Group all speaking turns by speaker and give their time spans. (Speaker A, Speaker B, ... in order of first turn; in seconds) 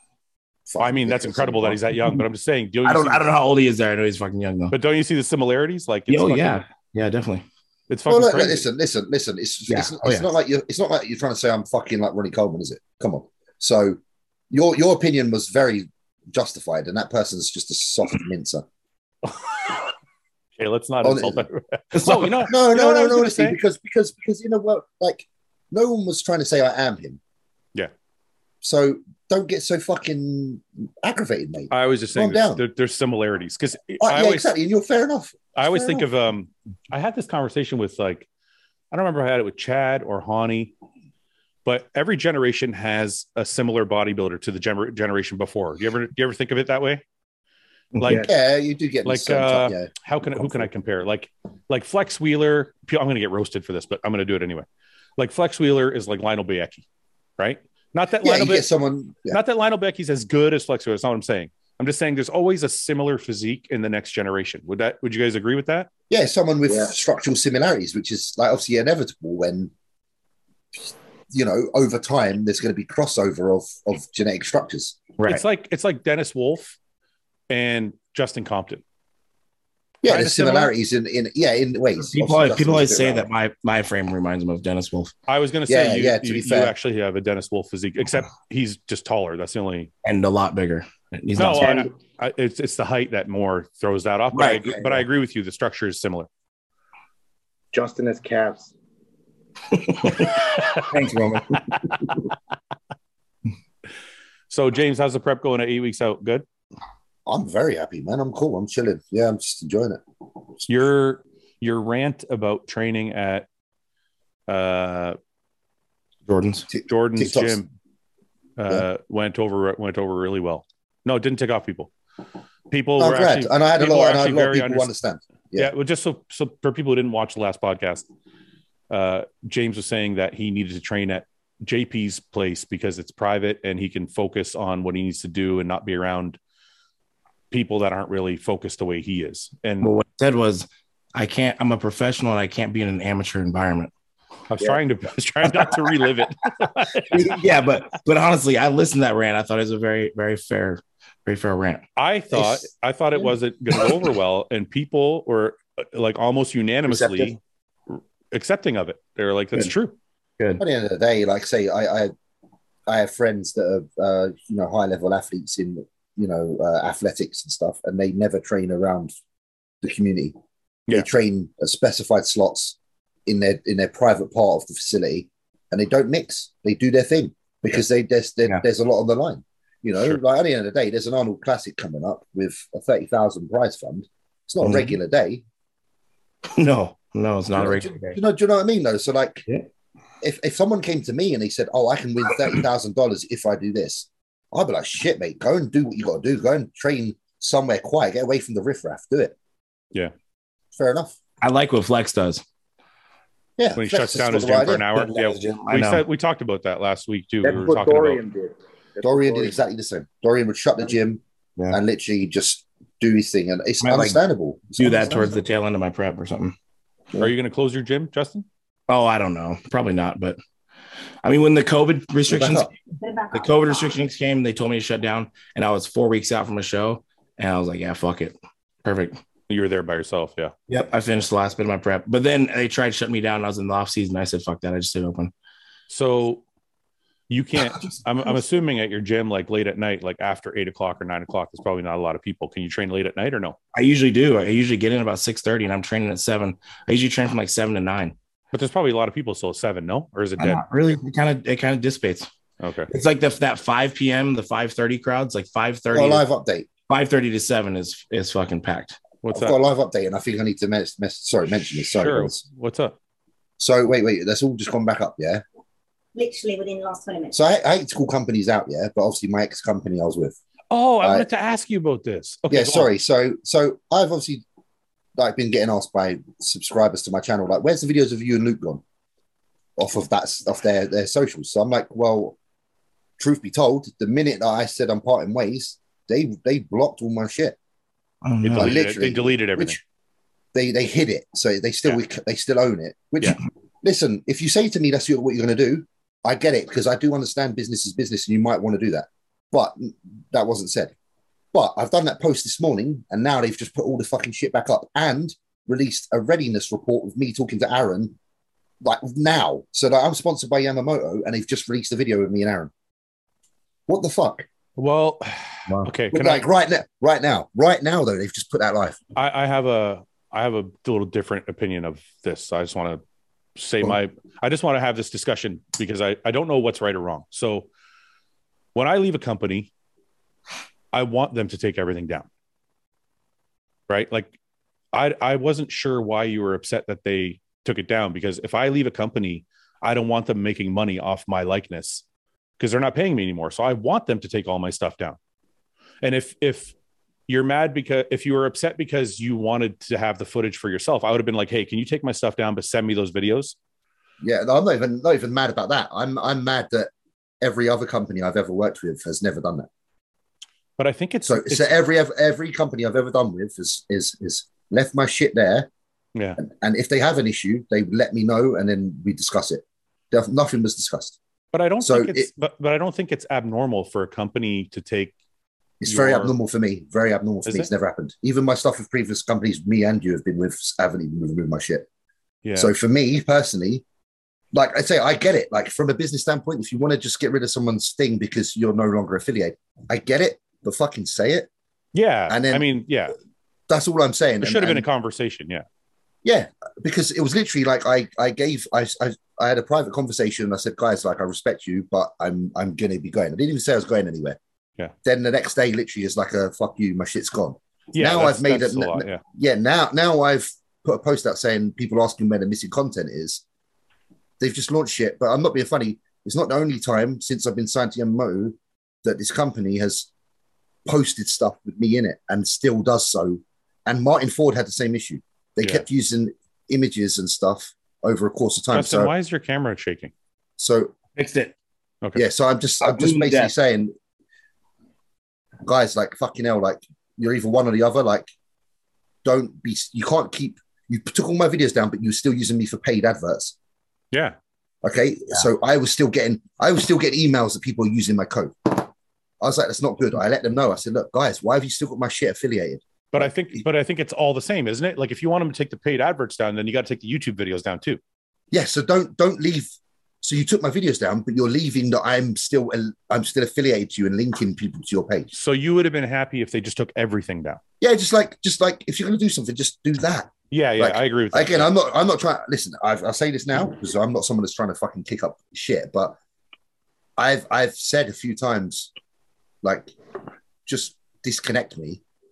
Speaker A: 0.7-1.8, 8.1-14.0, 14.5-18.6, 21.0-21.5, 22.1-27.2, 28.6-32.6, 34.0-36.1, 48.1-50.7, 58.2-59.4, 66.1-69.7, 70.8-75.0, 80.0-83.3, 85.7-86.7, 107.3-110.0, 116.7-117.6, 123.0-125.7, 160.6-162.1, 162.9-169.1, 169.8-170.3, 170.9-185.4, 187.6-189.5, 190.2-199.3, 200.8-201.2, 203.6-204.9, 209.0-215.4, 222.3-222.7, 255.9-256.7, 259.3-262.4, 263.6-265.4, 267.3-270.4, 272.5-274.4, 275.2-278.8, 279.8-282.4, 283.2-287.6, 288.5-289.8, 290.5-300.9, 301.5-308.1, 308.8-312.7, 313.9-314.5, 316.1-319.0, 354.2-356.9, 357.4-359.7, 361.2-365.7, 366.4-371.2, 371.8-372.3, 375.8-381.9, 382.6-383.8, 384.5-391.5, 392.3-392.7, 393.7-394.9, 396.2-404.4, 405.0-413.4, 414.4-420.1, 420.9-429.1, 430.6-431.0, 432.1-433.9, 435.6-438.3, 439.2-443.6, 444.8-448.9, 449.4-453.3, 458.5-465.3, 467.8-476.2, 477.2-478.9, 479.6-479.9, 480.7-482.0
Speaker B: 0.8-3.3, 4.7-6.6, 7.9-8.7, 20.6-23.6, 31.7-34.5, 35.6-38.3, 38.9-40.7, 41.6-47.0, 48.0-48.2, 49.0-54.7, 55.2-56.9, 57.4-58.7, 59.3-65.9, 75.3-76.8, 77.5-78.8, 80.1-80.7, 85.3-89.9, 91.4-96.3, 100.2-100.8, 104.5-106.5, 110.7-113.5, 114.5-115.2, 116.9-117.7, 118.6-121.9, 122.7-124.9, 125.6-128.1, 128.9-136.4, 137.5-139.9, 144.5-147.3, 152.0-157.4, 157.9-159.9, 203.8-208.2, 217.2-218.5, 229.5-230.5, 235.9-236.4, 237.3-243.6, 248.5-250.7, 252.6-252.9, 259.2-259.6, 261.9-262.9, 270.7-272.9, 288.4-289.8, 314.8-316.4, 319.2-323.0, 323.6-327.7, 328.8-329.7, 330.9-332.3, 333.9-334.4, 334.9-342.0, 342.6-345.2, 346.0-346.7, 347.3-353.6, 360.8-361.7, 371.5-375.1, 375.9-376.3, 382.4-382.7, 391.9-393.1, 394.4-395.6, 407.9-409.2, 428.7-430.1, 453.1-458.0, 465.3-467.6, 470.5-471.7
Speaker C: 2.9-4.8, 6.1-7.5, 9.7-10.3, 21.9-22.4, 82.0-85.1, 90.0-91.9, 94.3-94.9, 99.7-102.0, 116.3-116.7, 139.8-143.9, 147.1-151.9, 156.9-157.3, 184.6-185.0, 186.5-188.2, 201.4-202.4, 204.9-206.0, 213.8-214.2, 214.8-216.6, 218.9-220.4, 221.2-222.7, 223.3-229.2, 230.7-235.3, 243.7-248.2, 250.4-252.3, 252.9-256.2, 256.9-259.0, 288.2-288.7, 431.2-431.5, 432.8-433.5
Speaker D: 48.1-48.3, 97.7-98.7, 207.4-209.6
Speaker E: 223.0-223.9, 266.2-267.4